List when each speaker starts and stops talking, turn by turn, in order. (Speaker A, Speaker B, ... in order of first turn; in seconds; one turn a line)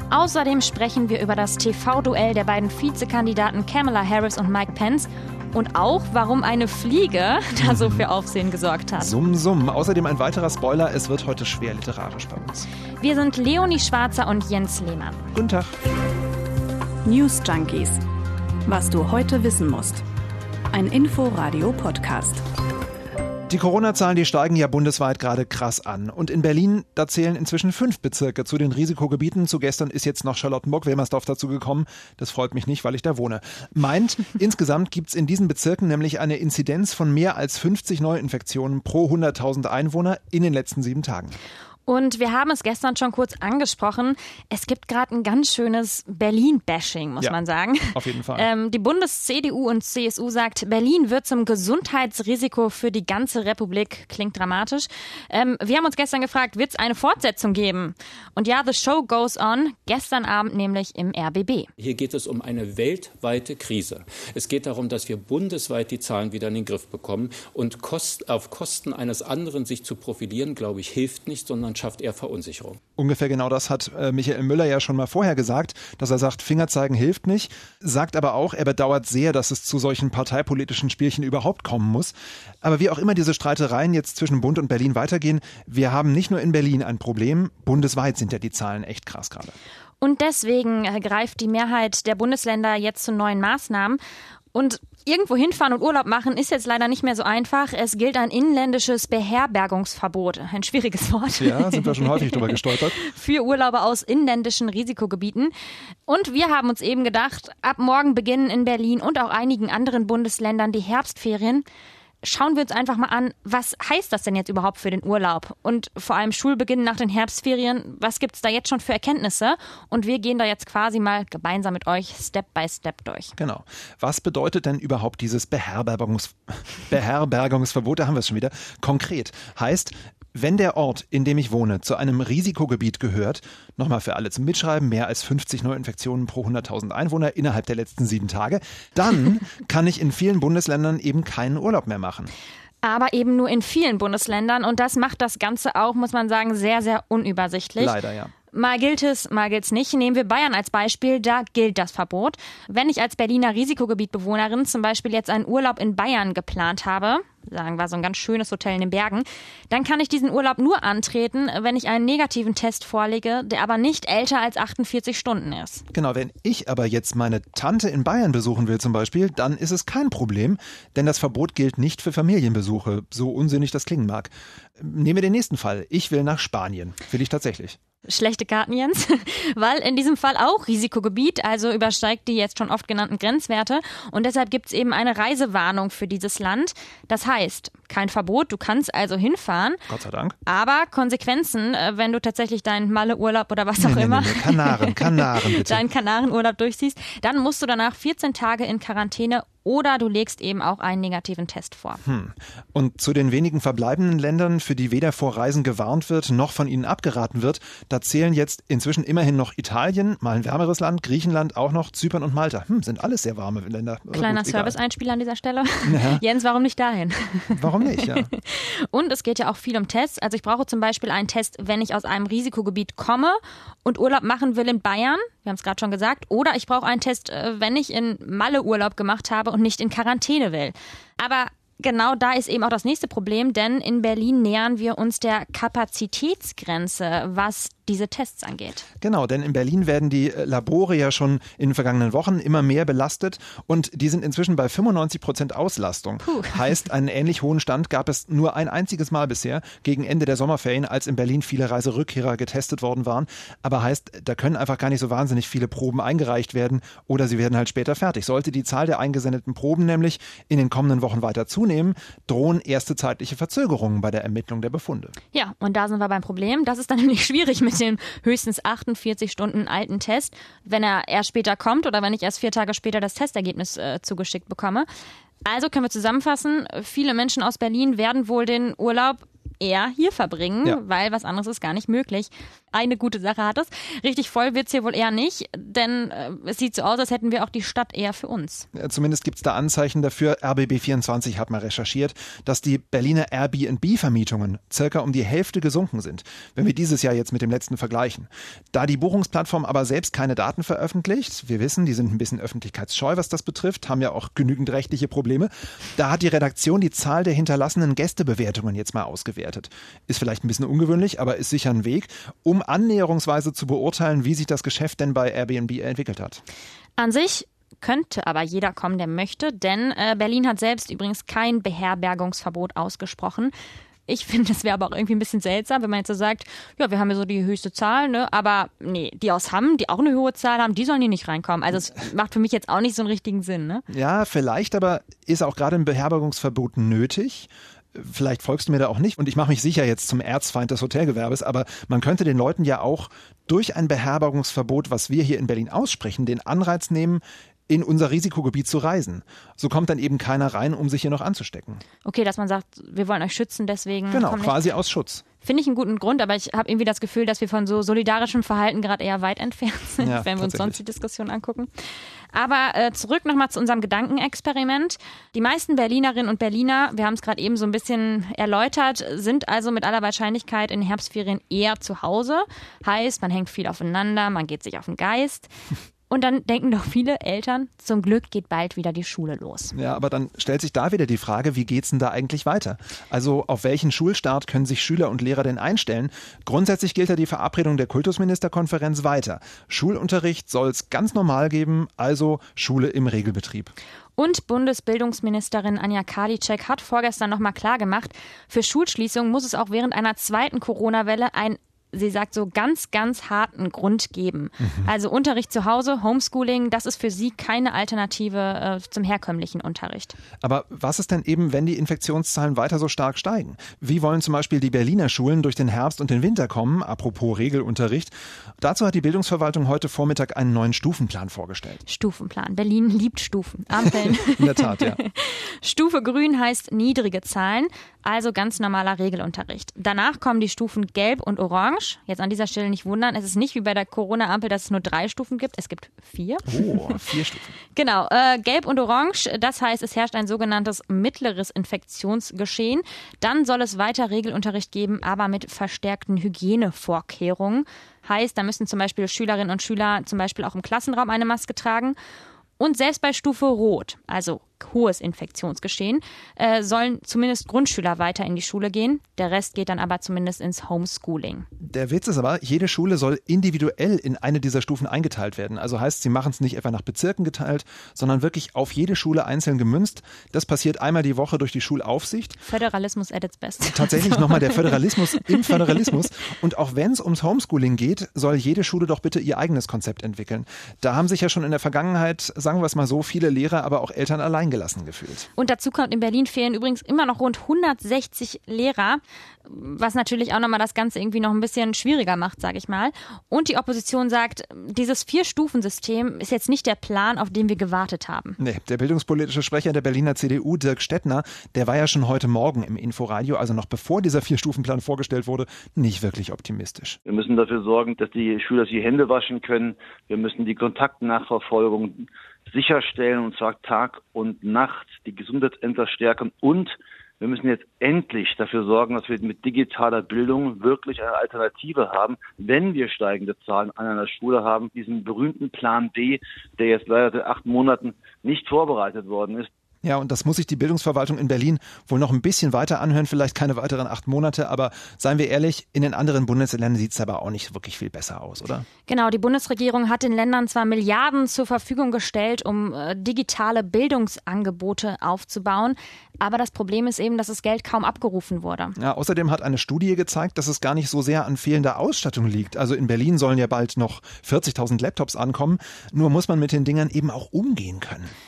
Speaker A: 0.1-9.1
Speaker B: 7.6-8.1
Speaker B: 8.9-12.7
Speaker A: 13.0-15.3
Speaker B: 15.3-15.8
Speaker C: 17.0-18.0
Speaker C: 18.6-20.0
Speaker C: 20.7-22.4
Speaker B: 23.5-41.3
Speaker A: 41.9-61.7
Speaker B: 47.9-48.5
Speaker D: 61.8-72.8
Speaker B: 73.0-89.5
Speaker A: 90.0-94.0
Speaker A: 94.5-105.5
Speaker B: 101.4-103.0
Speaker A: 106.1-111.6
Speaker A: 112.2-123.3
Speaker B: 123.4-142.3
Speaker A: 142.8-148.0
Speaker B: 147.8-148.3
Speaker A: 148.5-165.8
Speaker B: 165.9-177.8
Speaker A: 178.0-189.8
Speaker B: 189.9-190.3
Speaker A: 190.4-202.0
Speaker B: 193.8-195.8
Speaker B: 202.0-214.8
Speaker A: 214.1-238.9
Speaker B: 215.8-216.2
Speaker B: 217.5-218.3
Speaker B: 239.0-265.1
Speaker A: 246.3-246.6
Speaker A: 265.3-274.9
Speaker A: 275.4-288.7
Speaker B: 288.7-316.4
Speaker A: 317.0-323.5
Speaker A: 324.1-333.8
Speaker B: 333.9-351.8
Speaker A: 352.0-354.6
Speaker B: 354.1-355.2
Speaker A: 355.4-361.7
Speaker B: 360.0-360.8
Speaker A: 362.3-375.5
Speaker A: 376.1-379.7
Speaker B: 379.7-393.7
Speaker A: 394.2-410.1
Speaker B: 404.6-404.9
Speaker B: 410.4-421.8
Speaker A: 421.9-437.0
Speaker B: 423.9-425.0
Speaker B: 436.4-437.5
Speaker A: 437.7-451.9
Speaker A: 452.6-461.5
Speaker B: 461.6-472.4
Speaker A: 472.4-475.7
Speaker B: 473.7-485.3
Speaker A: 485.4-498.4
Speaker B: 498.4-507.0
Speaker E: 507.1-529.5
Speaker B: 529.8-538.6
Speaker A: 538.9-548.8
Speaker B: 548.8-558.1